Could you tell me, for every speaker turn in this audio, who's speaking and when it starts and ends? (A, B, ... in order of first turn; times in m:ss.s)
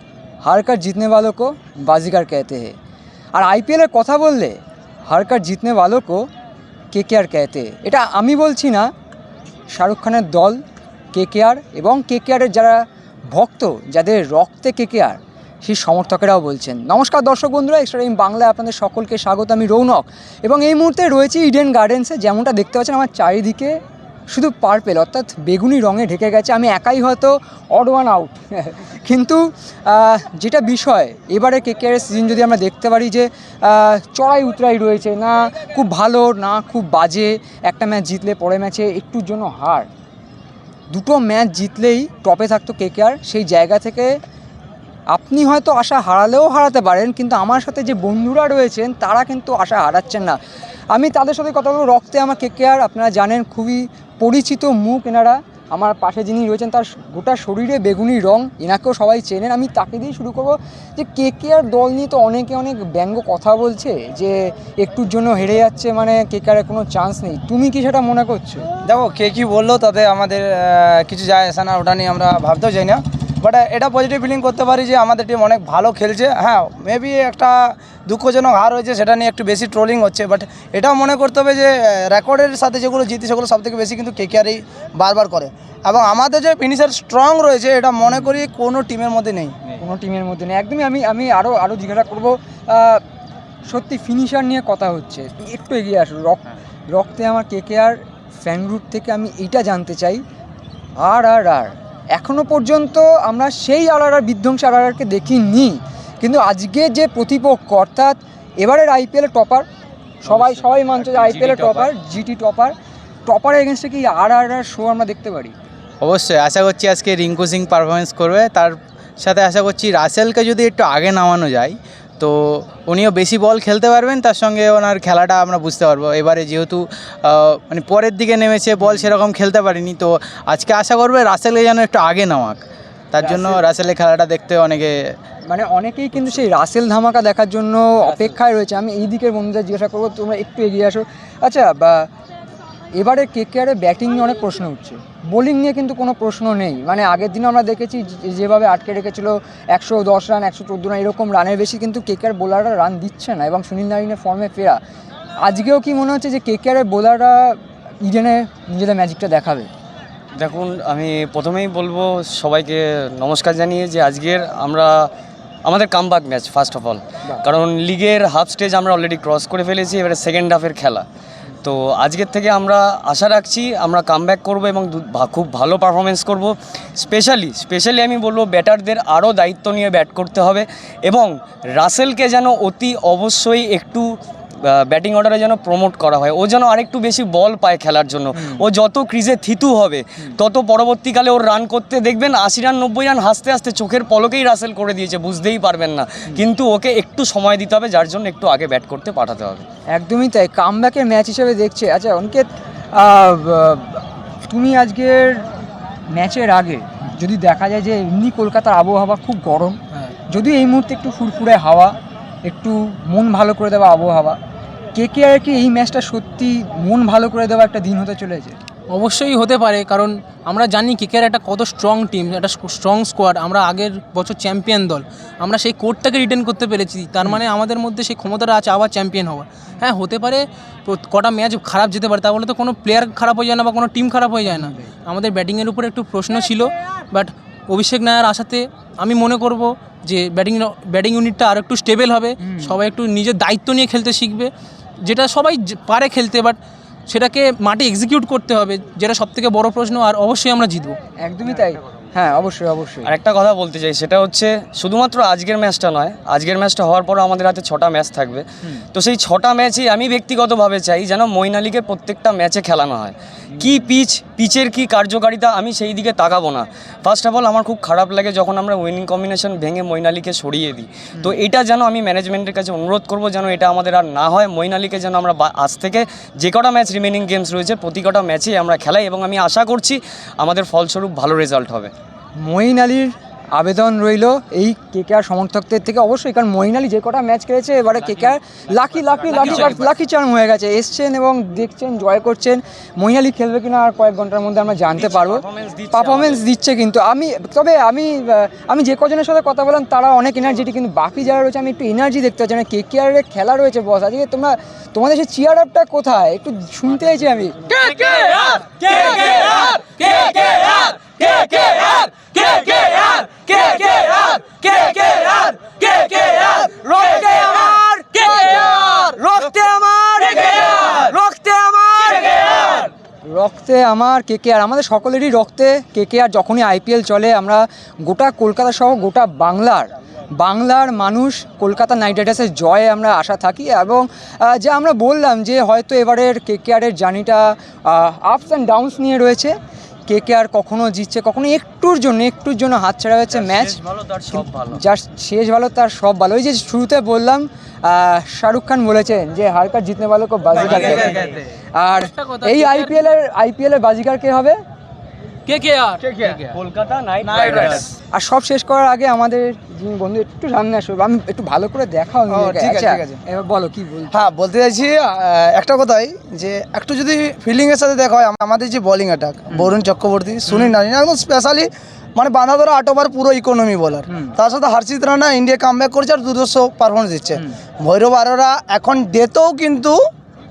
0:00.4-0:02.8 A
0:03.4-0:06.3 A
0:06.9-0:08.9 A
0:09.7-0:10.6 A
0:11.1-0:23.8 A
0:24.3-0:39.9 A
0:40.9-0:44.2 A
0:45.1-0:50.4 A
0:50.9-1:08.7 A
1:08.8-1:29.6 B
1:28.1-1:28.4 A
1:29.8-1:33.0 A
1:33.7-1:40.2 A
1:41.0-1:49.7 A
1:50.2-1:52.8 A
1:53.3-1:55.6 A
1:56.0-2:15.1 C
2:13.2-2:13.6 A
2:15.5-2:22.1 A
2:23.0-2:34.8 A
2:35.4-2:39.7 A
2:40.4-2:45.1 D
2:45.6-2:51.0 D
2:51.6-3:04.1 D
3:04.6-3:19.7 D
3:19.9-3:25.5 A
3:26.1-3:29.8 A
3:30.3-3:34.4 A
3:35.0-3:38.6 A
3:38.9-4:04.5 E
3:54.5-3:54.8 A
4:05.0-4:11.0 E
4:11.2-4:13.1 A
4:13.1-4:41.9 D
4:42.4-5:07.6 A
4:49.1-4:49.9 D
4:55.0-4:56.4 D
5:07.7-5:22.9 D
5:23.3-5:43.8 A
5:43.3-5:44.8 D
5:44.3-5:54.6 A
5:50.7-5:51.4 C
5:52.0-5:53.1 E
5:55.5-5:56.3 E
5:56.3-5:57.9 D
5:58.1-6:04.1 A
6:02.3-6:03.2 B
6:04.1-6:20.0 B